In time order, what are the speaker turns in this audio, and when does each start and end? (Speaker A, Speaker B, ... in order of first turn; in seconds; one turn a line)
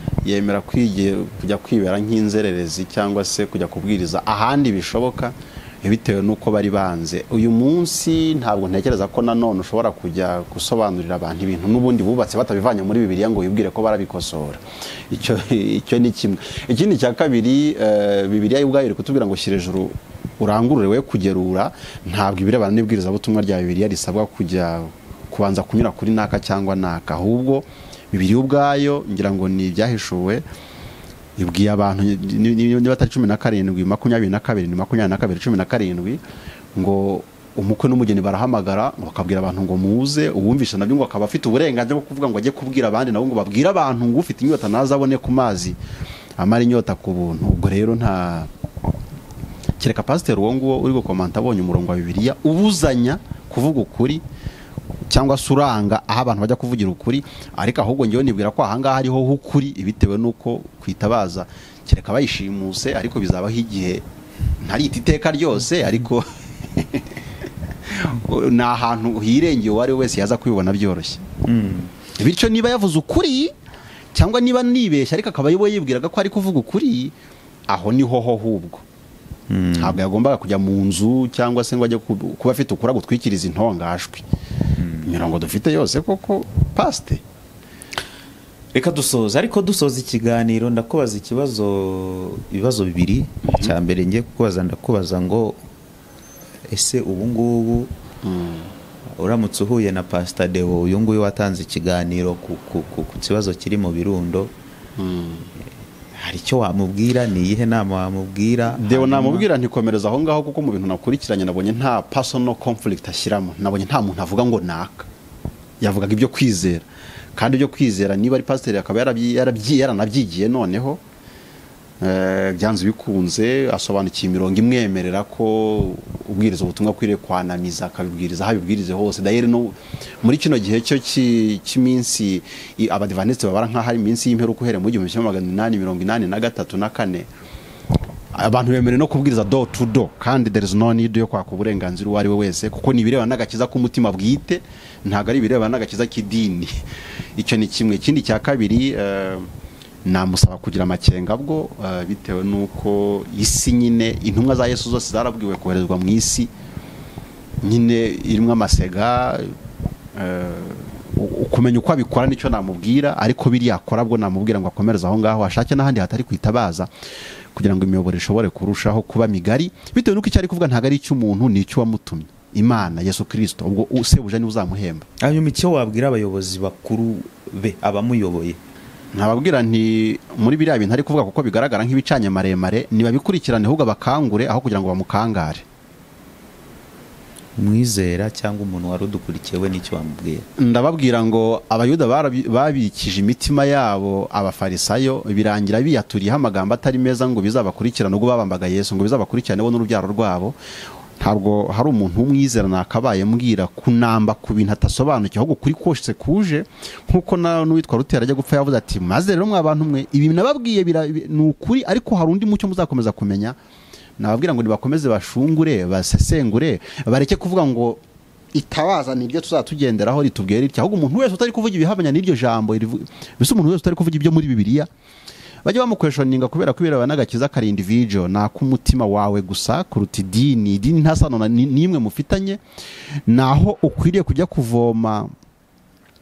Speaker A: 0.2-30.4
Speaker A: 31.4-36.2
Speaker A: 36.7-45.8
Speaker A: 46.4-48.5
Speaker A: 49.8-54.2
Speaker A: 55.1-64.0
Speaker A: 64.6-67.2
Speaker A: 67.8-71.2
Speaker B: 71.4-71.9
Speaker A: 72.2-73.5
Speaker A: 74.1-77.1
Speaker A: 77.7-78.8
Speaker B: 79.5-80.0
Speaker A: 79.8-84.2
Speaker B: 84.8-85.1
Speaker A: 85.0-87.2
Speaker B: 88.7-95.6
Speaker A: 93.4-93.8
Speaker B: 96.7-97.9
Speaker A: 98.2-98.7
Speaker B: 99.2-104.5
Speaker A: 105.0-105.5
Speaker B: 106.1-109.5
Speaker A: 108.7-115.1
Speaker A: 115.8-121.0
Speaker A: 122.0-137.3
Speaker A: 138.3-146.8
Speaker A: 147.3-149.5
Speaker A: 150.0-156.5
Speaker A: 157.6-159.5
Speaker A: 160.1-166.9
Speaker A: 167.5-175.1
Speaker B: 175.2-178.6
Speaker A: 179.1-185.6
Speaker B: 187.6-190.5
Speaker A: 190.6-200.6
Speaker A: 201.2-213.6
Speaker A: 214.2-218.0
Speaker A: 218.5-224.9
Speaker A: 225.6-232.6
Speaker A: 233.3-235.3